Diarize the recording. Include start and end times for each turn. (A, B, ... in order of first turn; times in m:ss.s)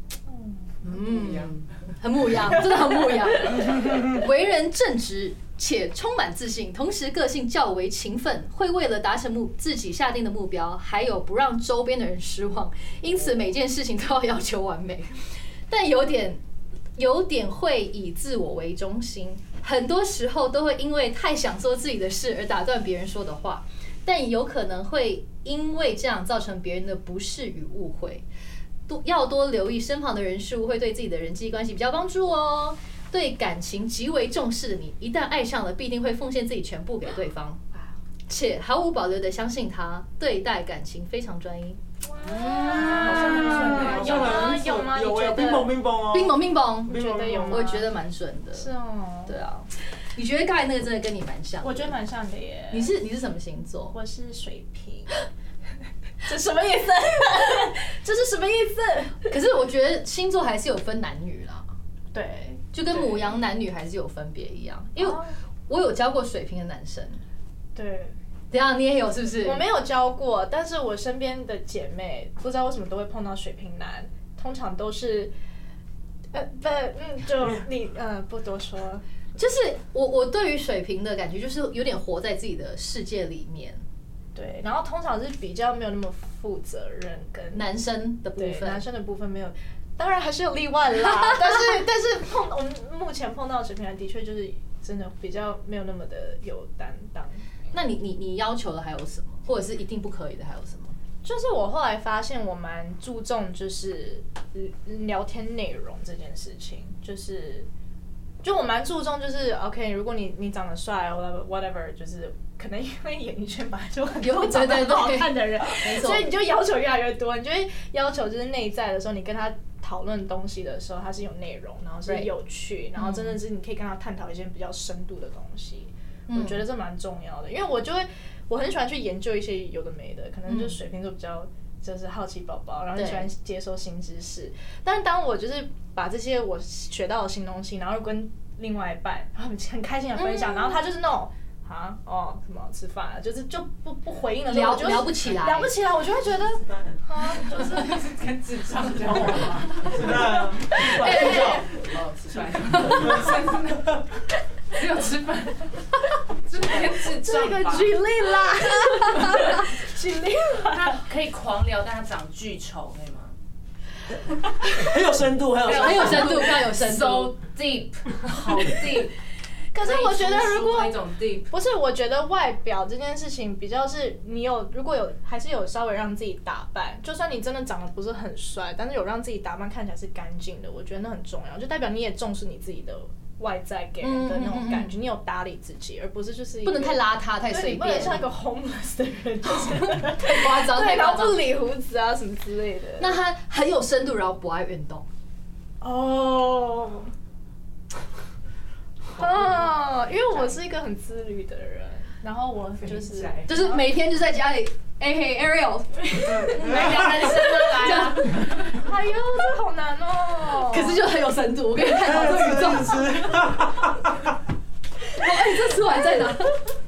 0:00.3-0:00.8 A
0:00.8-0:15.2 B
0:15.7-0:16.4 B
0:17.0-0:28.2 B
0:28.9-0:37.6 B
0:38.3-0:44.6 B
0:42.1-0:45.8 A
0:42.8-0:47.6 C
0:42.8-0:44.4 D
0:46.1-0:48.7 B
0:46.9-0:47.9 A
0:48.5-0:49.4 A
0:49.2-0:52.0 B
0:51.6-0:52.9 A
0:52.7-0:54.0 B
0:53.9-0:55.2 A
0:56.2-0:59.3 A
0:59.3-1:01.7 B
1:02.1-1:03.3 A
1:02.7-1:07.2 B
1:05.0-1:05.3 A
1:07.7-1:08.2 A
1:08.5-1:09.6 B
1:09.4-1:15.3 A
1:16.3-1:19.0 A
1:19.4-1:23.8 B
1:24.3-1:27.7 A
1:27.5-1:28.8 B
1:28.3-1:37.4 A
1:31.2-1:31.6 B
1:37.7-1:41.0 B
1:41.2-1:47.7 A
1:48.4-2:28.0 A
1:54.2-1:56.3 B
2:02.0-2:02.3 B
2:03.0-2:03.4 B
2:06.3-2:06.6 B
2:10.5-2:10.8 B
2:12.9-2:13.3 B
2:20.1-2:20.8 B
2:24.4-2:25.8 B
2:27.3-2:34.0 D
2:29.8-2:31.7 C
2:30.7-2:31.6 A
2:31.0-2:31.5 B
2:34.7-2:38.0 D
2:36.7-2:41.0 A
2:40.7-2:43.3 D
2:44.6-2:44.9 A
2:44.7-2:46.4 C
2:45.6-2:49.1 D
2:45.6-2:47.3 B
2:45.8-2:46.6 A
2:49.7-2:51.0 A
2:49.8-2:51.5 D
2:51.5-3:13.2 A
3:04.0-3:05.0 B
3:06.6-3:08.2 B
3:09.6-3:11.5 B
3:13.0-3:15.0 B
3:15.8-3:17.1 A
3:19.1-3:23.8 A
3:22.8-3:23.5 D
3:23.4-3:28.7 B
3:26.1-3:31.1 A
3:26.4-3:28.8 D
3:30.4-3:33.4 B
3:31.9-3:34.2 C
3:35.1-3:36.6 B
3:35.8-3:36.5 A